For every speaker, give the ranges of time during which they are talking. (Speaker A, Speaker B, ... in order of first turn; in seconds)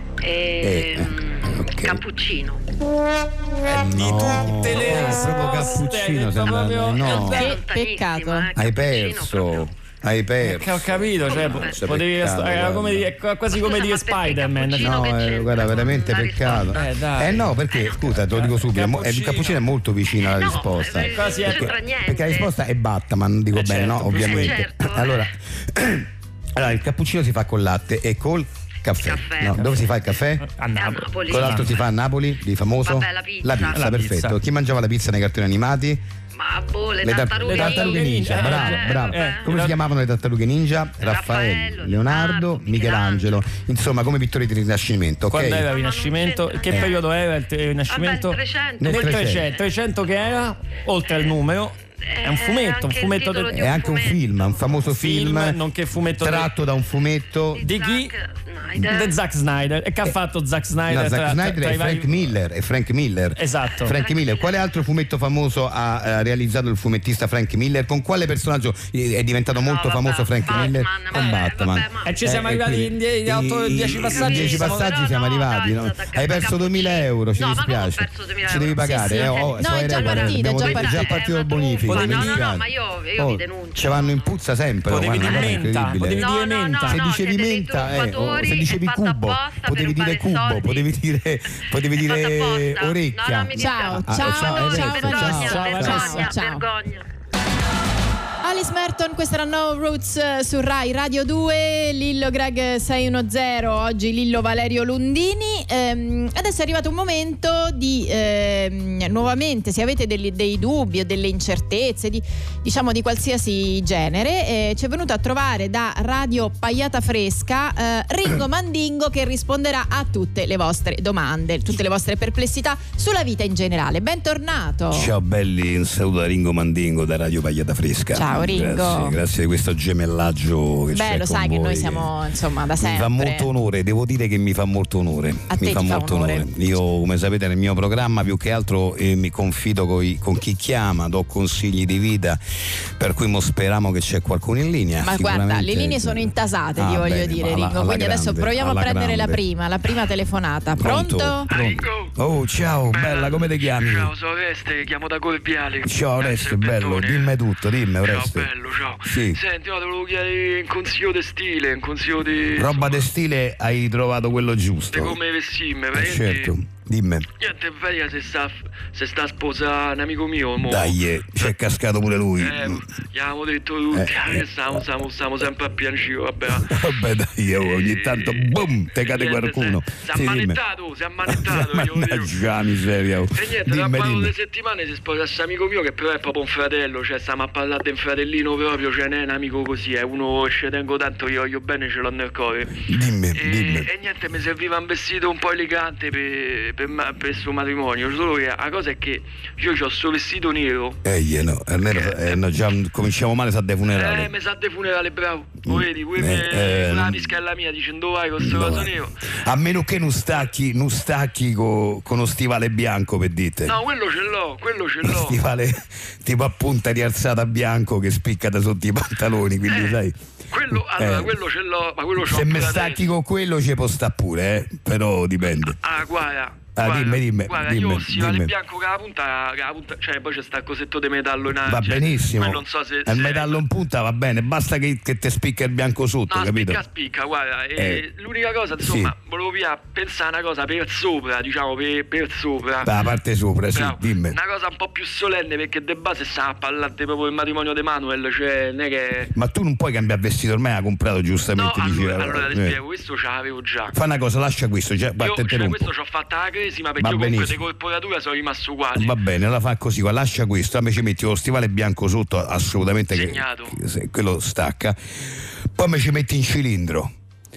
Speaker A: 0.2-2.6, 7.0-9.6, 11.3-11.7, 13.5-16.8, 17.7-18.0, 20.2-22.5, 24.3-25.2, 29.1-29.5, 30.8-31.5, 32.9-33.7, 36.4-39.4, 41.1-43.3, 45.7-47.0, 47.9-49.3, 52.2-54.2, 57.6-59.1, 64.0-64.6, 69.5-72.1, 74.2-84.3, 86.2-90.9, 92.1-97.0
Speaker B: 0.6-2.0, 3.6-7.6, 8.5-13.1, 14.8-30.4, 31.3-36.0, 37.0-45.7, 46.7-46.9, 48.8-49.5, 53.5-55.6, 56.2-57.7, 60.9-96.2, 124.9-132.1, 132.8-142.4, 143.0-149.4, 150.8-154.1, 155.8-158.5, 159.0-159.4, 162.5-165.2, 165.9-167.3, 170.6-172.8, 173.9-174.8, 176.5-180.6, 181.2-184.3, 192.9-193.9, 201.0-204.3, 205.7-207.3, 208.4-213.8, 215.0-220.2, 220.8-221.3, 222.2-225.8, 226.8-228.5, 231.6-236.8, 237.8-238.0, 238.8-239.1, 242.8-244.4, 249.3-252.8, 253.9-255.9, 257.0-257.6, 258.9-265.0, 265.7-267.1
Speaker C: 3.7-7.5, 10.4-15.0, 16.7-17.6, 18.1-19.6, 21.0-21.8, 23.5-24.7, 30.4-31.8, 33.7-34.4, 37.4-39.8, 45.3-53.6, 54.9-56.5, 57.6-58.1, 58.8-62.3, 63.4-64.0, 72.0-74.9, 81.8-82.5, 84.9-87.0, 95.3-96.3
Speaker D: 7.2-8.5, 78.8-81.1, 93.5-96.6, 98.4-125.1, 128.1-129.2, 130.9-133.5, 135.5-136.5, 145.0-151.5
Speaker E: 151.5-152.1, 152.9-157.3, 158.0-163.0, 164.9-166.5, 167.4-171.5, 172.4-176.7, 177.5-182.3, 183.3-192.8, 193.3-201.0, 201.9-202.4, 203.9-209.1, 213.7-215.4, 219.7-220.0, 220.5-223.1, 225.7-233.6, 236.3-242.9, 243.7-249.3, 251.5-253.9, 255.2-259.2, 263.1-263.7